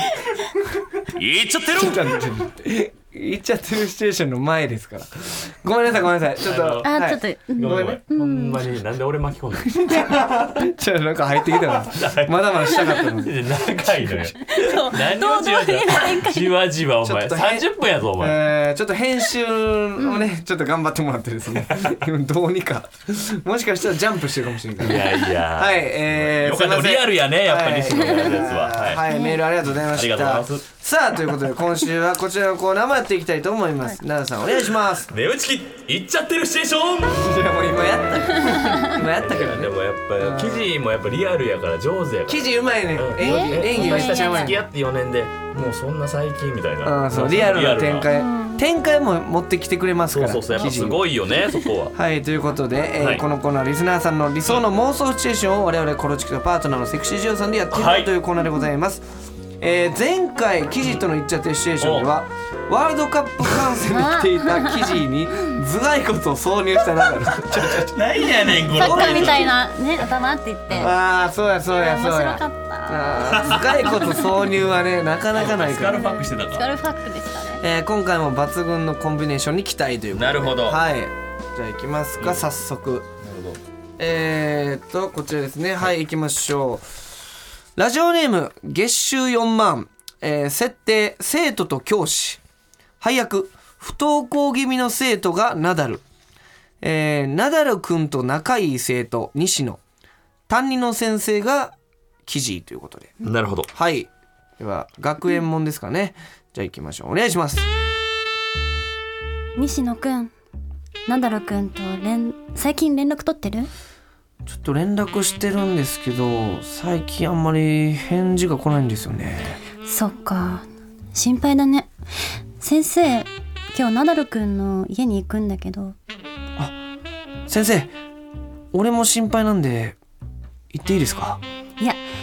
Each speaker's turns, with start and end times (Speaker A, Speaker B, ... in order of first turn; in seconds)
Speaker A: 1.1-2.3, 6.4-6.9, 7.6-10.5, 11.9-18.5, 24.8-29.0, 29.8-30.7, 35.1-37.4, 39.0-48.1, 50.1-51.9, 53.0-53.2, 57.7-58.1, 61.8-62.1, 67.5-69.5, 73.3-74.1, 75.3-76.7, 80.1-80.8, 82.2-82.5, 83.2-83.6, 103.2-103.7
Speaker B: 1.7-8.0, 9.7-13.5, 17.0-17.7, 18.2-35.1, 37.1-40.7, 42.3-44.6, 46.8-51.0, 51.9-59.0, 59.6-68.0, 68.5-69.4, 70.8-76.2, 77.6-83.1, 84.0-86.8, 87.8-92.4, 93.0-96.0, 96.8-99.8, 100.5-103.1, 103.7-107.7, 114.5-119.6, 127.5-127.9, 128.7-130.0, 130.7-131.4
Speaker C: 6.8-8.6, 14.4-16.5, 20.0-20.2, 29.1-29.4, 43.2-44.6, 48.1-48.6, 63.9-65.0, 68.7-70.9, 71.8-74.0, 76.0-77.6, 109.6-110.3, 111.1-113.7, 119.8-121.9, 122.6-126.0